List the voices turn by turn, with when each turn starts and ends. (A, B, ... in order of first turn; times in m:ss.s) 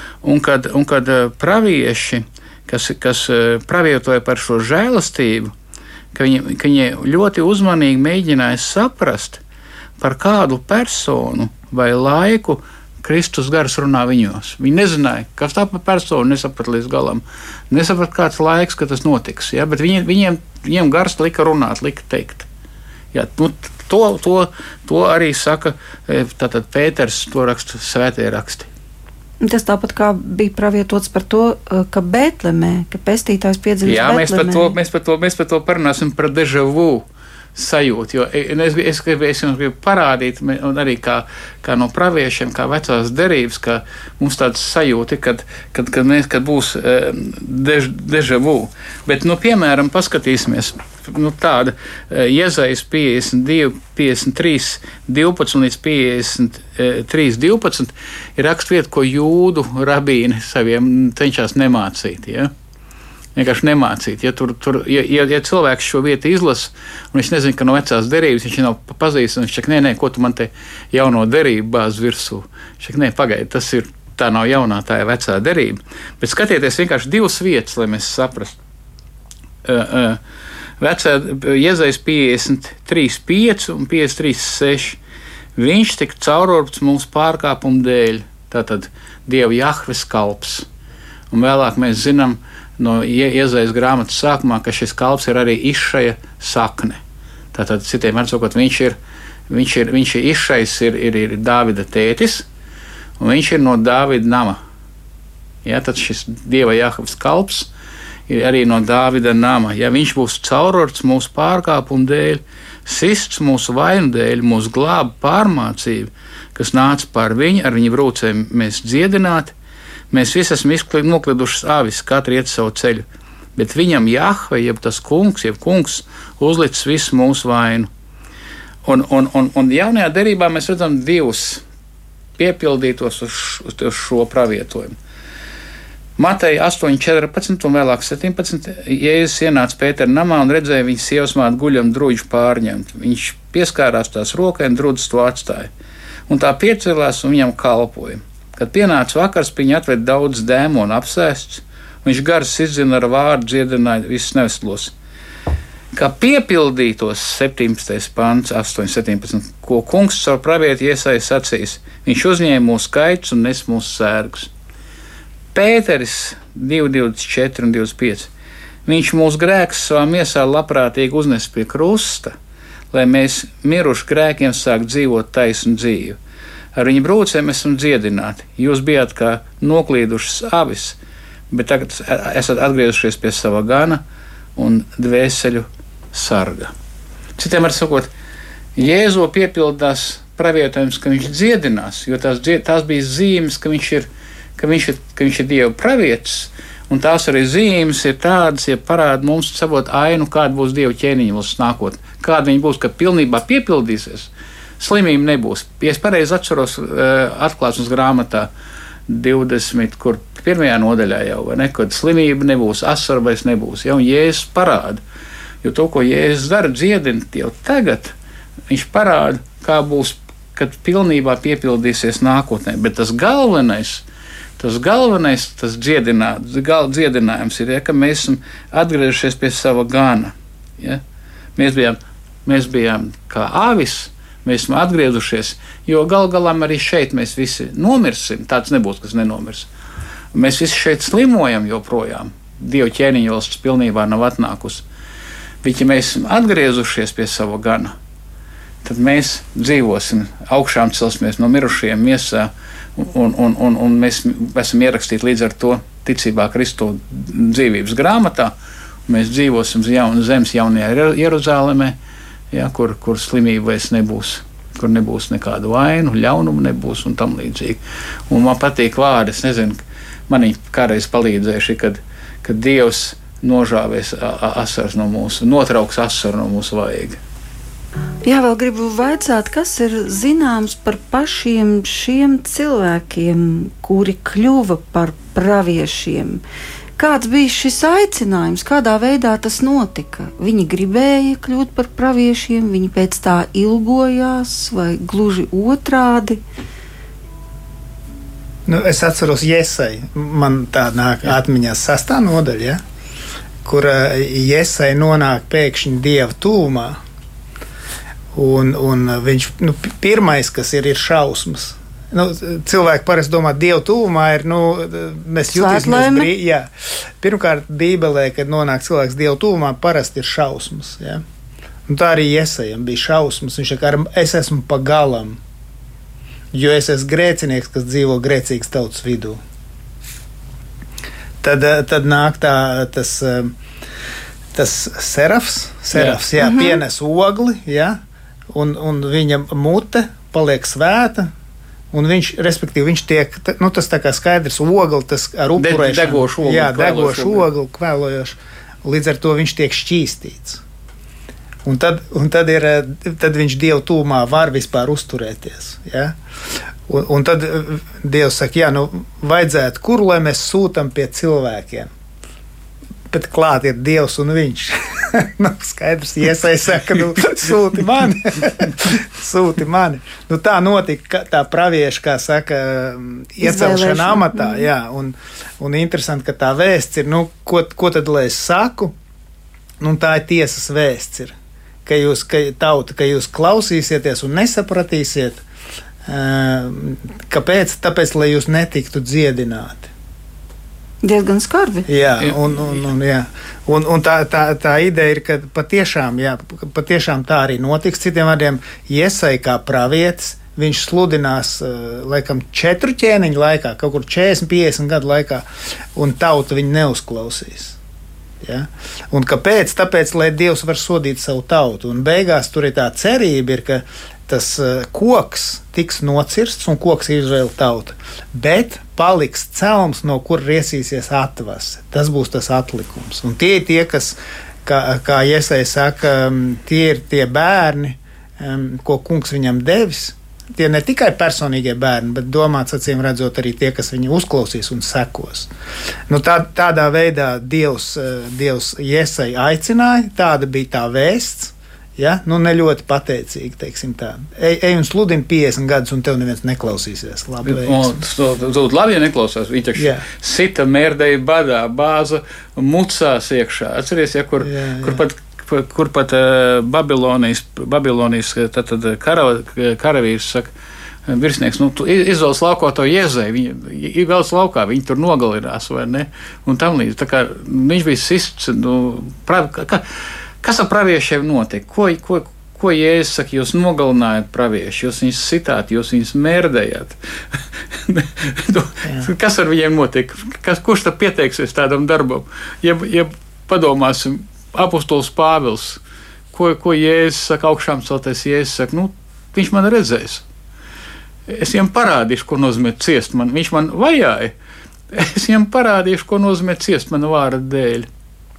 0:00.2-0:05.5 A
0:06.1-0:09.4 A
0:10.0-0:22.5 A
0:23.1-0:28.7 A
0:29.4-0:34.7 B
0:33.8-1:02.5 A
1:03.4-1:18.6 A
1:19.6-1:20.2 A
1:20.8-1:25.0 A
1:25.6-1:30.7 A
1:31.3-1:37.0 A
1:37.5-1:39.0 A
1:39.5-1:42.5 A
1:43.2-1:44.6 A
1:45.6-1:47.7 A
1:48.3-1:59.5 A
2:00.1-2:03.0 A
2:03.6-2:07.9 A
2:08.8-2:11.6 A
2:12.4-2:15.0 A
2:16.2-2:25.7 A
2:26.3-2:34.9 A
2:35.9-2:44.5 A
2:45.5-2:48.3 A
2:48.9-2:52.3 A
2:52.9-2:56.2 A
2:56.8-3:01.0 A
3:01.5-3:04.0 A
3:04.6-3:06.7 A
3:07.4-3:08.1 A
3:08.8-3:28.5 A
3:29.1-3:35.0 A
3:35.6-3:38.1 A
3:38.7-3:44.0 A
3:44.6-3:51.0 A
3:51.6-3:59.7 A
4:00.3-4:04.8 A
4:05.6-4:07.9 A
4:08.8-4:18.5 A
4:19.1-4:22.0 A
4:22.5-4:37.2 A
4:38.2-4:46.4 B
4:47.0-4:56.4 B
4:58.7-5:02.8 C
5:03.6-5:07.0 C
5:08.3-5:21.2 C
5:15.5-5:16.3 B
5:21.9-5:25.4 C
5:26.5-5:29.4 C
5:31.4-5:33.5 C
5:34.5-5:38.0 C
5:35.9-5:36.2 A
5:36.4-5:36.8 B
5:38.5-5:41.3 C
5:41.9-5:50.6 C
5:45.6-5:47.5 A
5:51.6-5:56.2 C
5:56.9-6:01.9 C
6:03.1-6:19.0 C
6:13.4-6:14.7 B
6:19.8-6:25.4 C
6:26.1-6:29.9 C
6:31.0-6:31.9 B
6:31.9-6:47.8 C
6:32.2-6:32.9 A
6:48.4-7:15.5 C
7:16.1-7:28.0 C
7:27.4-7:40.5 A
7:29.8-7:30.0 C
7:34.4-7:35.0 C
7:41.1-7:49.8 A
7:50.4-8:05.8 A
8:06.3-8:10.3 A
8:11.3-8:14.3 A
8:14.9-8:17.9 A